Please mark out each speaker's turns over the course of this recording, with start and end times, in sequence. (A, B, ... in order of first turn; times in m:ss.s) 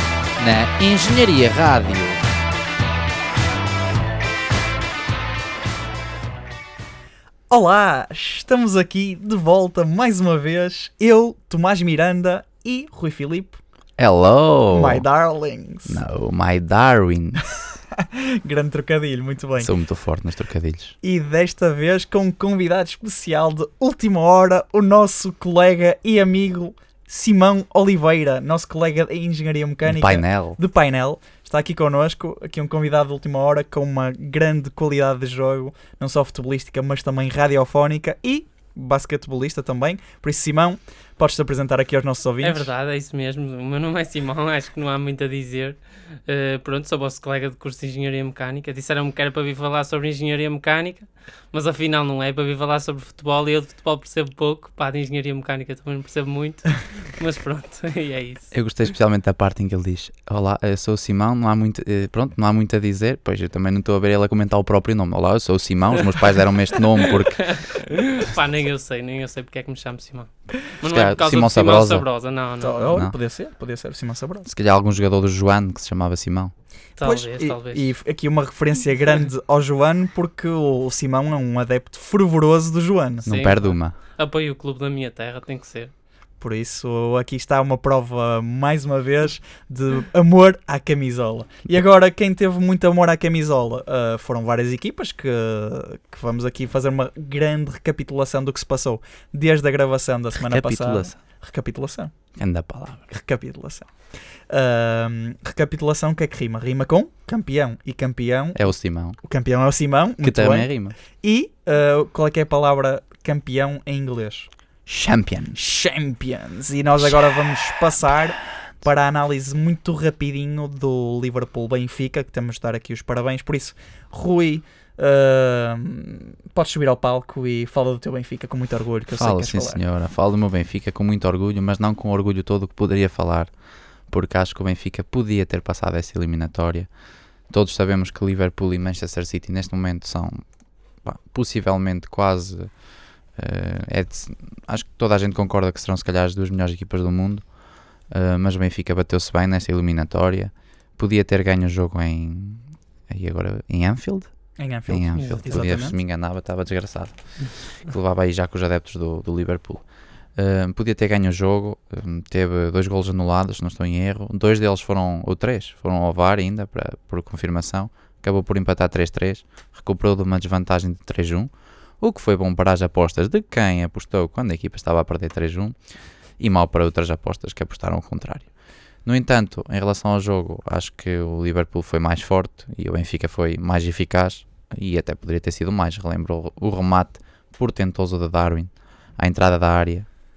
0:00.4-0:02.2 A
0:07.5-0:13.6 B
0:14.0-0:15.0 A
0:14.7-0:16.0 B
0:15.9-0:17.8 A
0:18.0-0:19.7 B
0:19.6-0:21.0 A
0:21.0-0:42.7 B
0:29.8-0:30.6 A
0:42.4-0:58.5 C
0:58.5-1:07.5 A
1:07.0-1:13.0 C
1:10.8-1:12.1 A
1:12.6-1:14.5 B
1:14.5-1:16.5 A
1:17.0-1:17.9 C
1:17.0-1:23.3 B
1:23.2-1:24.0 A
1:23.3-1:25.9 C
1:26.4-1:42.1 B
1:40.4-1:41.1 A
1:42.4-1:43.0 A
1:43.1-1:43.9 B
1:44.5-1:48.7 B
1:48.5-1:49.2 A
1:49.2-1:54.5 B
1:50.2-1:51.0 A
1:54.9-1:55.6 A
1:55.5-2:09.8 B
2:09.2-2:13.5 A
2:14.1-2:16.9 A
2:17.5-2:20.4 A
2:21.0-2:22.8 A
2:23.3-2:27.5 A
2:28.1-2:39.8 A
2:34.6-2:36.0 B
2:35.2-2:35.4 C
2:40.4-2:55.8 A
2:56.4-2:58.5 A
2:59.0-3:10.1 A